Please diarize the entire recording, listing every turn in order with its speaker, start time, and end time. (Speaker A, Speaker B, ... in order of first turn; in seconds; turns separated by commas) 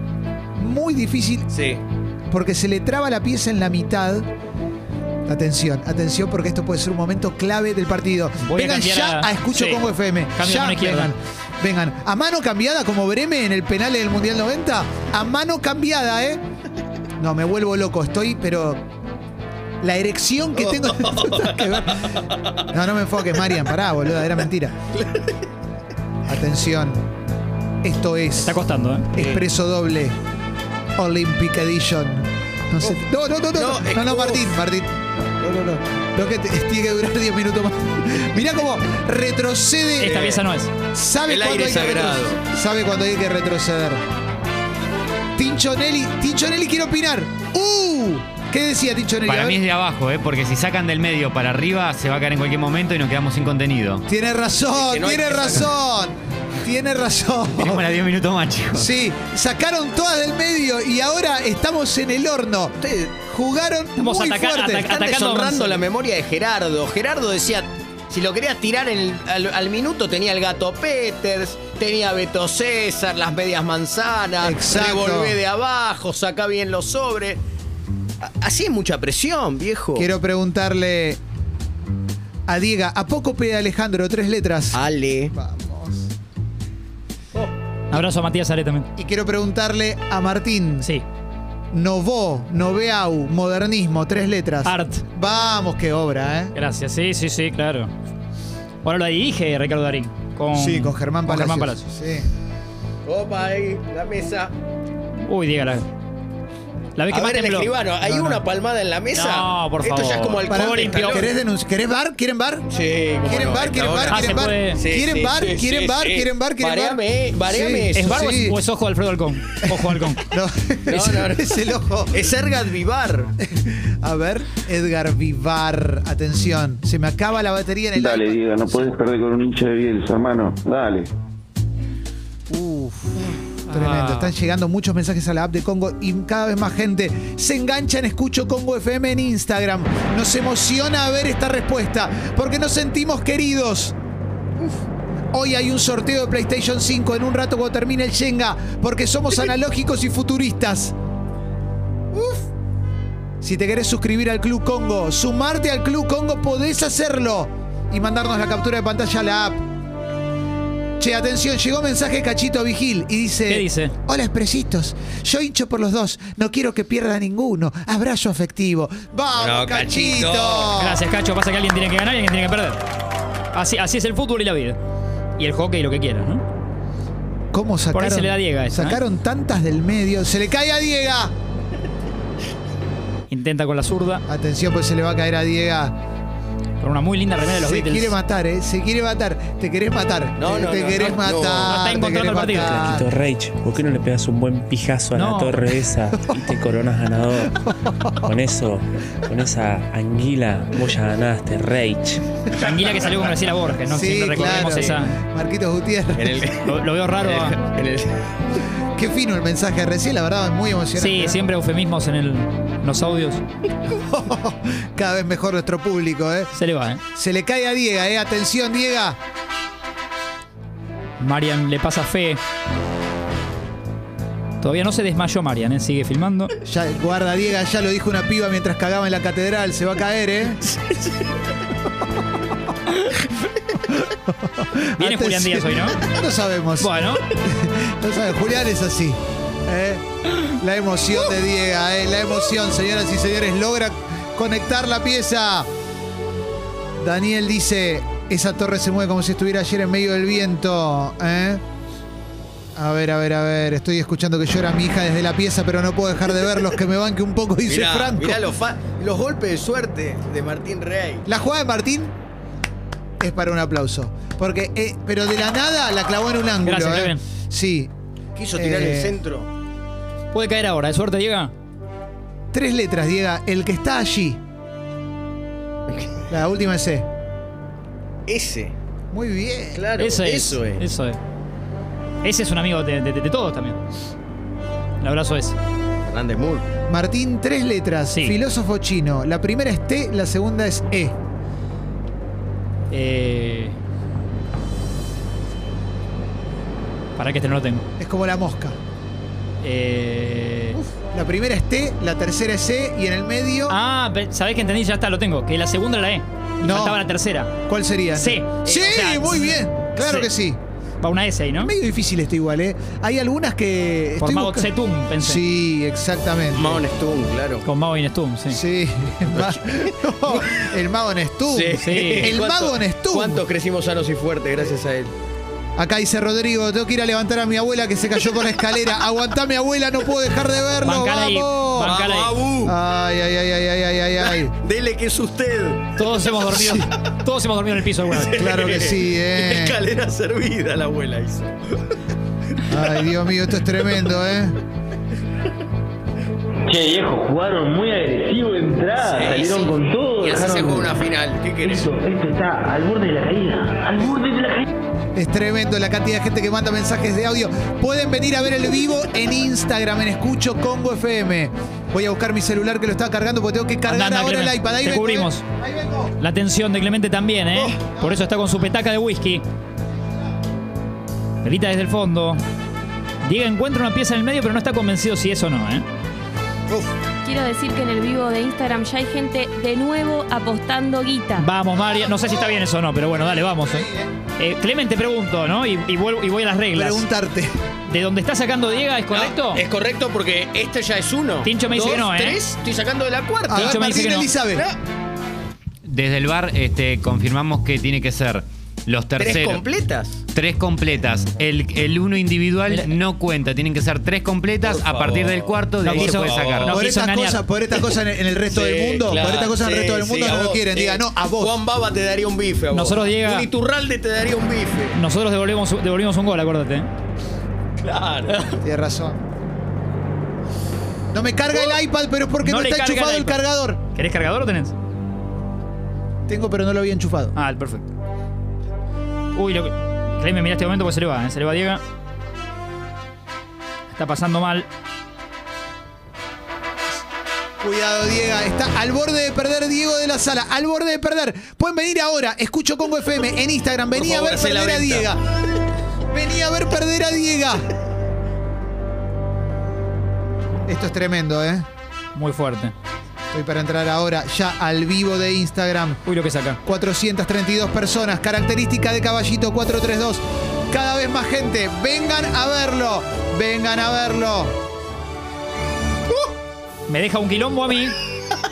Speaker A: 0.5-1.5, Speaker B: 1.5-1.8, Speaker A: 2.3-4.3, Speaker A: 5.2-16.4, Speaker C: 8.4-11.1, Speaker A: 17.2-18.9, Speaker A: 19.8-24.8, Speaker B: 20.6-22.7, Speaker B: 24.9-25.4, Speaker A: 26.3-27.1, Speaker A: 27.8-28.6, Speaker C: 28.4-29.1, Speaker A: 29.1-30.1, Speaker A: 31.0-44.0, Speaker B: 33.5-34.5, Speaker C: 40.0-40.7, Speaker B: 41.2-42.4, Speaker A: 45.4-49.6, Speaker D: 49.2-54.0, Speaker A: 54.1-57.8, Speaker B: 54.7-55.7, Speaker D: 57.6-58.9, Speaker A: 58.7-64.9, Speaker B: 62.8-63.1, Speaker C: 64.0-65.8, Speaker B: 64.8-77.4, Speaker A: 74.4-75.4, Speaker B: 78.2-80.1, Speaker A: 80.0-81.2, Speaker A: 82.5-84.8, Speaker B: 84.7-85.3, Speaker A: 85.3-86.1, Speaker C: 87.9-88.9, Speaker A: 89.0-90.9, Speaker A: 91.7-96.5, Speaker C: 94.6-95.0, Speaker C: 96.5-97.9, Speaker C: 98.8-101.8, Speaker A: 100.5-102.3, Speaker B: 103.0-104.5, Speaker C: 105.3-105.9, Speaker C: 107.0-108.3, Speaker B: 107.1-111.3, Speaker C: 109.1-111.2, Speaker A: 110.5-112.7, Speaker B: 112.7-118.1, Speaker A: 113.2-118.6, Speaker C: 114.1-114.8, Speaker C: 118.0-120.2, Speaker A: 119.6-122.3, Speaker B: 120.9-123.3, Speaker A: 123.4-128.9, Speaker E: 128.0-131.1, Speaker A: 132.5-143.9, Speaker C: 133.7-134.3, Speaker A: 145.3-150.9, Speaker B: 152.1-152.4, Speaker A: 153.4-159.6, Speaker A: 161.0-171.0, Speaker C: 163.5-163.9, Speaker B: 169.4-170.7, Speaker C: 170.8-172.8, Speaker C: 173.5-174.8, Speaker C: 175.4-176.4, Speaker A: 177.5-181.3, Speaker C: 177.9-179.0, Speaker C: 183.3-184.2, Speaker A: 184.3-186.0, Speaker C: 186.8-188.1, Speaker A: 187.5-193.1, Speaker B: 190.4-191.8, Speaker C: 191.7-192.8, Speaker F: 192.6-197.6, Speaker C: 195.1-195.6, Speaker A: 197.6-198.3, Speaker F: 198.2-202.2, Speaker C: 202.5-205.1, Speaker A: 203.8-206.5, Speaker B: 204.6-205.0, Speaker B: 206.2-208.3, Speaker C: 206.6-207.6, Speaker A: 208.9-211.4, Speaker C: 211.0-213.4, Speaker A: 213.9-216.5, Speaker C: 216.5-217.0, Speaker A: 217.1-219.2, Speaker C: 221.2-222.4, Speaker C: 224.6-226.5, Speaker A: 226.6-230.6, Speaker A: 233.9-245.7, Speaker C: 235.0-236.0, Speaker C: 236.8-237.2, Speaker A: 247.0-251.6, Speaker A: 252.7-258.4, Speaker B: 257.6-261.2, Speaker A: 261.2-262.1, Speaker A: 263.2-267.9, Speaker C: 266.6-267.2, Speaker B: 268.4-269.5, Speaker A: 268.5-269.1, Speaker C: 270.3-271.5, Speaker A: 272.5-274.4, Speaker B: 275.9-276.2, Speaker A: 276.3-277.1, Speaker B: 278.3-278.7, Speaker A: 279.1-279.8, Speaker B: 279.7-280.9, Speaker C: 280.0-281.2, Speaker C: 282.2-283.8, Speaker C: 285.0-285.6, Speaker B: 286.1-286.7, Speaker A: 286.9-291.2, Speaker C: 292.9-293.8, Speaker C: 297.1-297.9, Speaker A: 298.0-298.8, Speaker C: 299.6-300.8, Speaker A: 301.1-303.8, Speaker C: 303.7-307.5, Speaker A: 306.6-307.0, Speaker A: 307.6-310.6, Speaker C: 308.1-310.3, Speaker C: 311.0-311.7, Speaker A: 311.6-316.8, Speaker C: 314.2-315.4, Speaker B: 316.5-317.6, Speaker C: 317.6-318.6, Speaker A: 318.5-323.4, Speaker B: 319.3-320.6, Speaker B: 321.5-325.1, Speaker C: 321.8-322.3, Speaker A: 325.8-332.0, Speaker C: 330.8-332.3, Speaker B: 331.8-332.8, Speaker A: 332.6-334.5, Speaker B: 334.2-335.9, Speaker C: 335.9-338.3, Speaker A: 336.6-336.8, Speaker B: 338.1-341.9, Speaker A: 338.3-339.8, Speaker A: 342.7-344.6, Speaker G: 346.7-350.9, Speaker B: 349.0-351.9, Speaker G: 351.6-354.7, Speaker A: 355.1-366.1, Speaker C: 363.9-365.4, Speaker C: 366.2-369.4, Speaker A: 367.9-368.4, Speaker C: 371.4-372.4, Speaker C: 373.2-375.9, Speaker H: 377.2-381.5, Speaker C: 381.4-383.9, Speaker A: 381.8-382.6, Speaker A: 383.4-384.1, Speaker C: 384.4-387.0, Speaker A: 386.7-387.6, Speaker C: 387.9-389.6, Speaker B: 389.1-393.7, Speaker C: 391.4-392.4, Speaker A: 393.5-394.6, Speaker C: 393.6-394.3, Speaker D: 395.8-399.6, Speaker B: 399.2-400.2, Speaker D: 400.3-406.8, Speaker C: 402.7-402.9, Speaker B: 404.6-406.8, Speaker C: 405.8-407.4, Speaker A: 406.7-411.6, Speaker B: 408.5-415.0, Speaker C: 412.7-413.5, Speaker C: 414.9-416.9, Speaker B: 417.8-418.6, Speaker A: 418.6-419.2, Speaker A: 421.1-423.8, Speaker C: 422.4-423.4, Speaker C: 423.9-424.7, Speaker A: 426.3-427.3, Speaker C: 427.4-427.9, Speaker C: 429.3-431.8, Speaker C: 433.9-434.7, Speaker A: 437.6-445.2, Speaker B: 443.9-445.2, Speaker A: 446.1-447.7, Speaker A: 450.6-451.6, Speaker C: 452.1-452.7, Speaker A: 453.3-456.0, Speaker C: 456.1-456.6, Speaker A: 456.6-464.5, Speaker C: 466.9-467.9